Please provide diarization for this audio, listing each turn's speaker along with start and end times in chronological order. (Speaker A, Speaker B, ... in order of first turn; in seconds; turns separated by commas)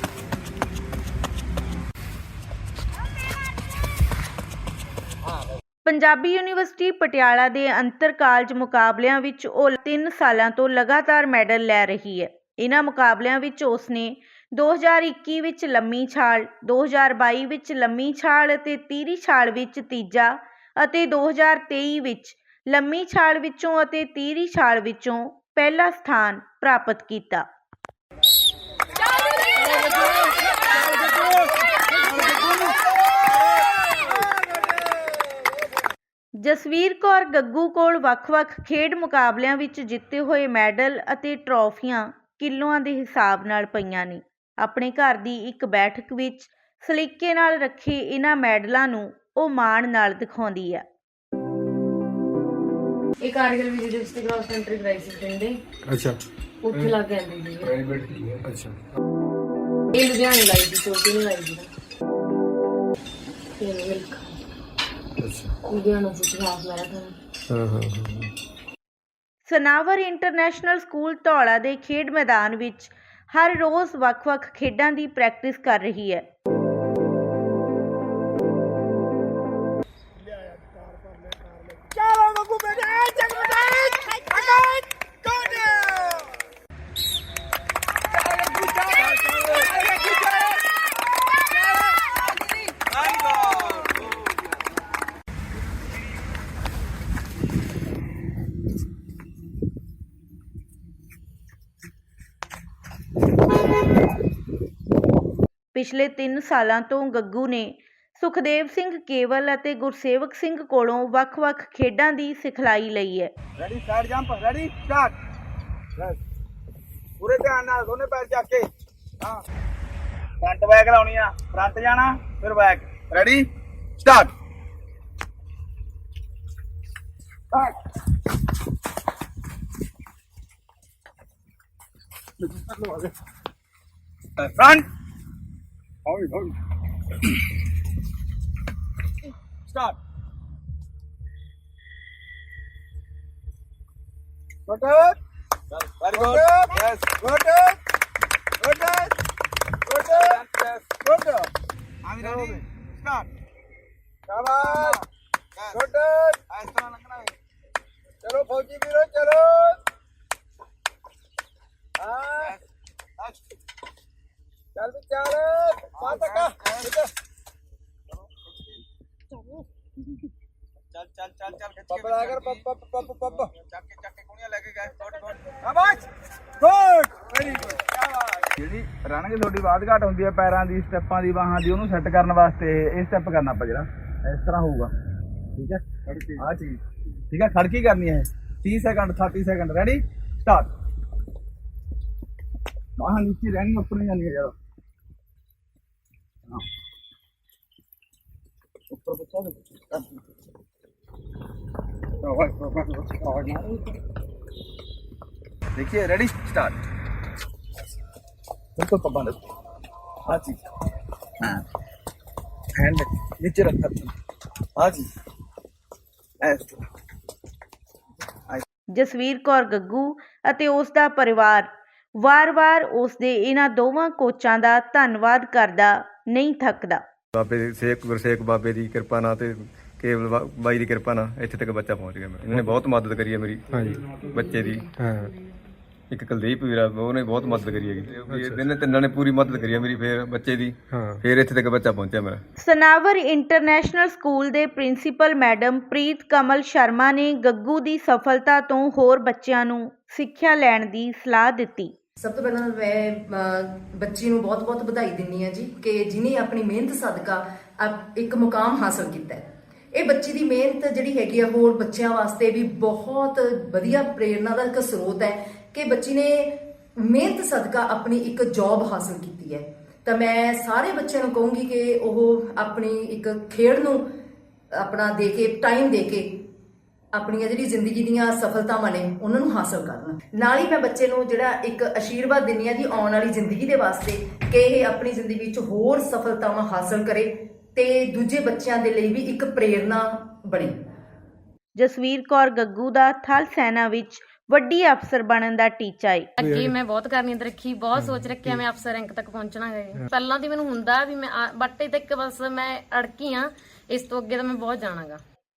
Speaker A: 5.8-27.4, Speaker A: 36.4-50.8, Speaker B: 53.2-55.6, Speaker C: 55.9-56.2, Speaker B: 56.6-57.8, Speaker C: 57.6-58.8, Speaker B: 59.9-61.7, Speaker B: 63.6-64.4, Speaker C: 65.2-65.5, Speaker B: 65.7-67.2, Speaker C: 67.5-68.3, Speaker A: 69.4-76.2, Speaker D: 82.8-84.2, Speaker D: 85.3-85.9, Speaker D: 88.9-90.2, Speaker D: 93.1-93.6, Speaker A: 105.7-113.3, Speaker D: 113.6-115.1, Speaker D: 117.2-118.7, Speaker D: 120.4-123.5, Speaker D: 124.0-124.3, Speaker D: 134.4-134.8, Speaker D: 136.1-136.5, Speaker D: 139.7-140.0, Speaker D: 144.7-145.1, Speaker D: 146.0-147.7, Speaker D: 148.6-149.1, Speaker D: 149.9-151.5, Speaker D: 152.0-153.3, Speaker D: 154.3-155.0, Speaker D: 155.6-157.3, Speaker D: 158.2-159.7, Speaker D: 162.0-162.6, Speaker D: 164.8-167.0, Speaker D: 170.9-176.0, Speaker D: 176.6-177.7, Speaker D: 178.5-184.9, Speaker D: 185.6-186.8, Speaker D: 187.3-190.7, Speaker D: 193.0-194.5, Speaker D: 198.9-200.0, Speaker D: 202.2-203.8, Speaker D: 205.8-206.8, Speaker D: 208.8-209.4, Speaker D: 210.3-210.6, Speaker D: 212.8-214.1, Speaker D: 214.8-215.1, Speaker D: 216.4-216.8, Speaker A: 218.9-227.0, Speaker E: 227.3-234.9, Speaker C: 233.7-234.0, Speaker C: 234.9-235.3, Speaker E: 236.1-242.4, Speaker C: 238.2-238.6, Speaker C: 240.9-241.2, Speaker A: 242.6-251.9, Speaker F: 252.2-274.1, Speaker F: 274.7-276.4, Speaker F: 277.1-290.8, Speaker A: 291.8-296.3, Speaker B: 296.4-305.2, Speaker C: 296.4-296.8, Speaker C: 297.9-298.6